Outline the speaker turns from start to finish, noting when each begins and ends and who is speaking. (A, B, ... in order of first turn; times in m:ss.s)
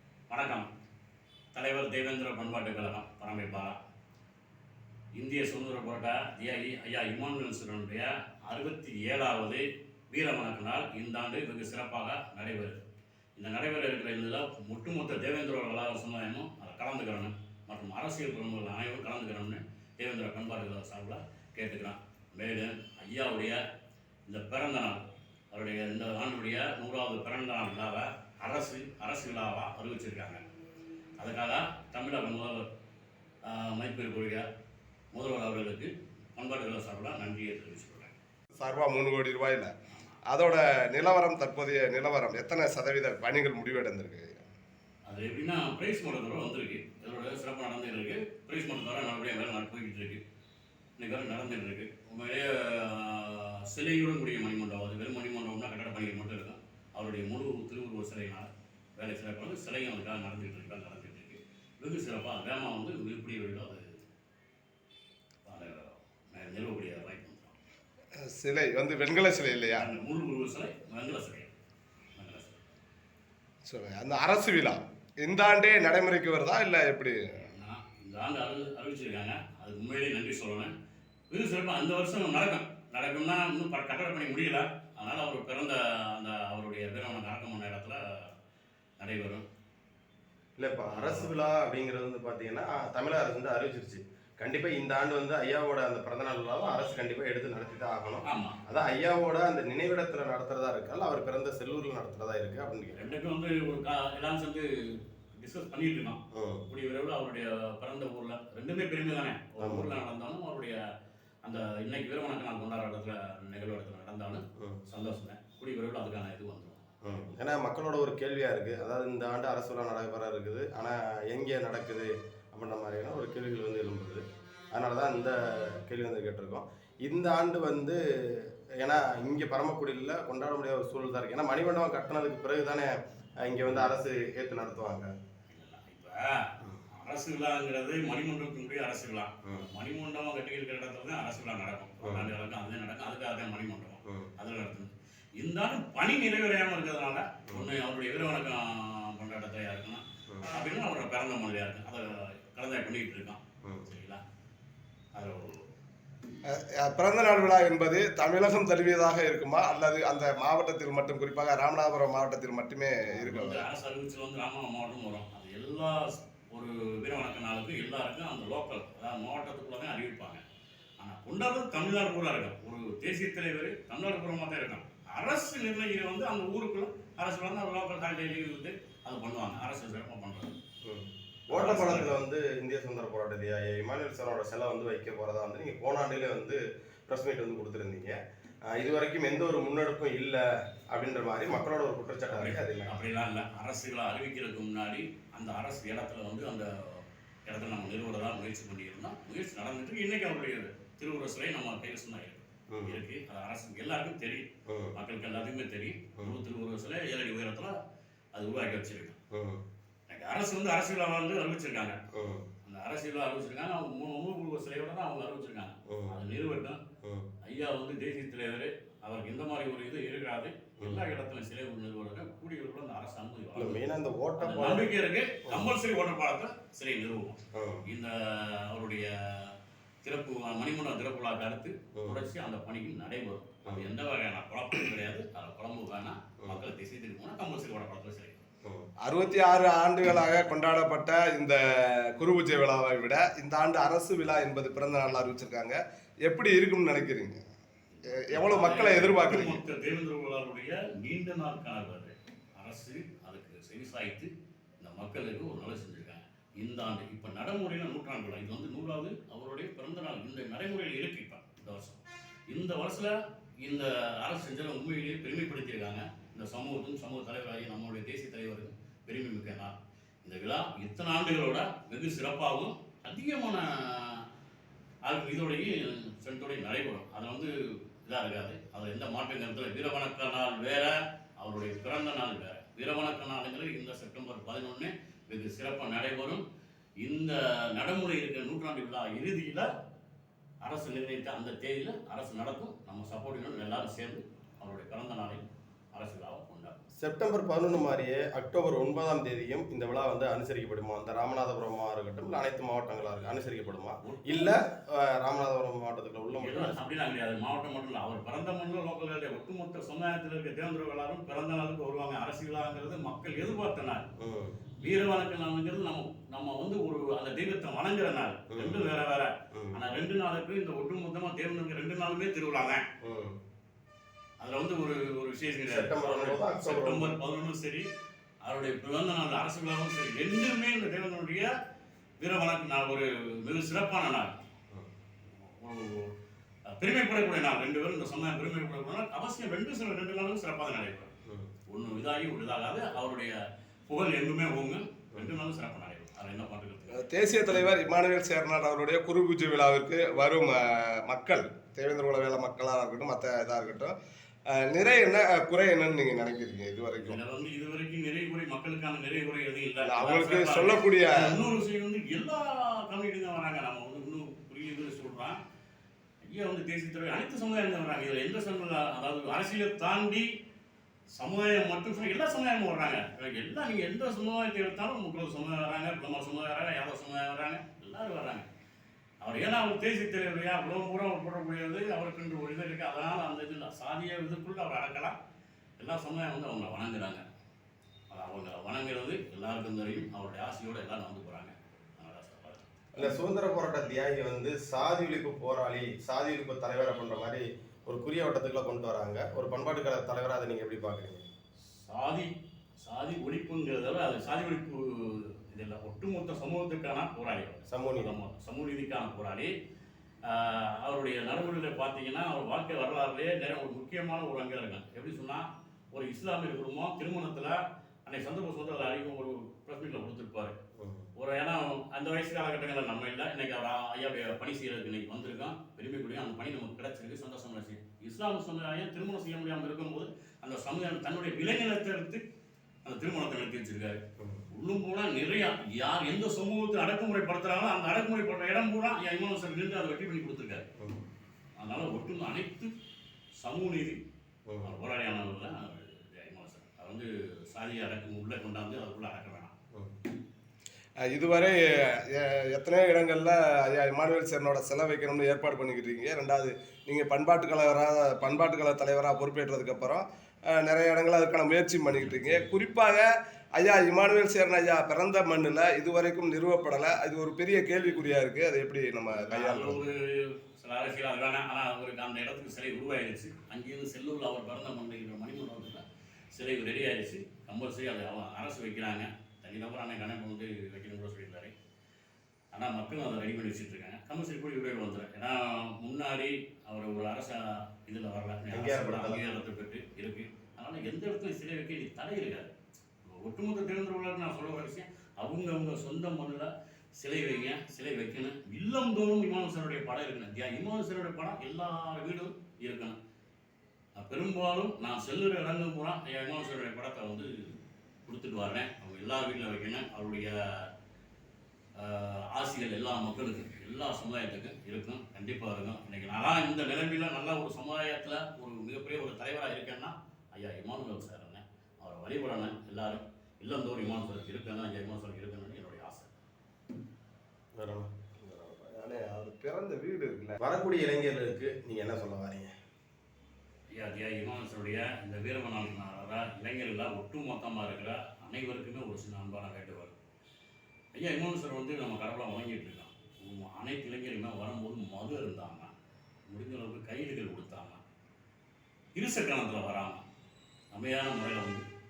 0:00.3-0:00.7 A
0:01.5-0:03.8 A
0:05.1-0:12.8 A
0:13.4-0:23.6 A
0:24.3-0:25.0 A
0:25.5-0:30.4 A
0:31.2-0:32.7 A
0:33.4-0:34.4 A
0:35.1-0:38.1 A
0:38.6-0:39.7 B
0:39.9-0:40.2 A
0:40.3-0:44.5 B
0:45.1-0:50.2 A
0:51.0-1:04.0 A
1:05.4-1:07.6 A
1:08.2-1:09.9 B
1:09.7-1:11.5 A
1:12.2-1:12.7 A
1:13.7-1:17.5 B
1:17.4-1:20.7 A
1:21.3-1:28.3 A
1:29.0-1:29.4 A
1:30.6-1:43.1 C
1:30.9-1:31.3 A
1:38.2-1:38.6 A
1:43.0-1:50.8 A
1:46.3-1:46.6 C
1:49.6-1:49.9 C
1:51.4-1:56.8 A
1:57.0-2:15.1 C
2:15.5-2:34.2 A
2:22.0-2:22.3 C
2:35.2-2:35.6 A
2:36.5-2:43.6 B
2:43.1-2:50.4 A
2:51.0-3:00.6 A
3:00.8-3:08.2 C
3:01.5-3:02.1 A
3:08.7-3:13.1 C
3:12.3-3:27.7 A
3:22.7-3:23.0 C
3:24.7-3:24.9 C
3:28.3-3:29.2 A
3:29.3-3:29.6 C
3:30.1-3:32.0 A
3:32.1-3:32.4 C
3:32.6-3:36.8 A
3:35.9-3:36.1 C
3:37.4-3:43.8 A
3:43.6-3:44.9 C
3:44.4-3:58.4 A
3:47.5-3:47.8 C
3:52.0-3:52.2 C
3:59.0-4:07.4 B
4:07.9-4:34.2 A
4:08.1-4:09.6 B
4:35.0-4:46.4 A
4:47.0-4:49.7 A
4:50.6-4:55.4 A
4:55.9-4:56.7 A
4:57.0-5:06.8 C
5:04.0-5:04.6 A
5:06.4-5:14.0 A
5:14.2-5:14.6 C
5:14.8-5:22.8 A
5:18.5-5:18.8 C
5:19.5-5:19.8 C
5:23.0-5:23.4 C
5:24.4-5:27.8 A
5:25.7-5:27.1 C
5:28.4-5:31.5 A
5:32.2-5:34.3 A
5:35.4-5:36.1 A
5:36.7-5:41.1 A
5:41.7-5:43.4 A
5:43.9-5:47.1 A
5:46.9-5:53.9 B
5:54.5-5:57.2 B
5:57.0-6:05.4 A
5:59.8-6:01.3 B
6:06.2-6:10.3 A
6:11.2-6:18.5 A
6:19.2-6:25.2 A
6:25.8-6:27.2 A
6:28.1-6:32.8 A
6:33.0-6:41.3 C
6:41.7-6:49.5 A
6:47.7-6:48.2 C
6:50.2-7:00.6 A
7:00.8-7:01.1 C
7:01.2-7:12.2 A
7:12.8-7:14.0 A
7:14.5-7:20.7 A
7:21.6-7:22.7 A
7:23.4-7:24.0 A
7:24.5-7:24.8 C
7:24.6-7:29.5 A
7:31.1-7:49.8 B
7:41.9-7:42.4 A
7:49.1-8:01.5 A
8:02.5-8:12.5 A
8:08.5-8:09.2 C
8:13.0-8:23.0 A
8:23.9-8:30.7 A
8:31.8-8:46.1 A
8:47.6-8:47.9 C
8:48.2-8:50.4 B
8:50.4-8:52.5 C
8:53.7-8:59.9 A
9:00.9-9:05.7 A
9:06.3-9:07.8 A
9:09.0-9:10.0 A
9:10.7-9:11.6 A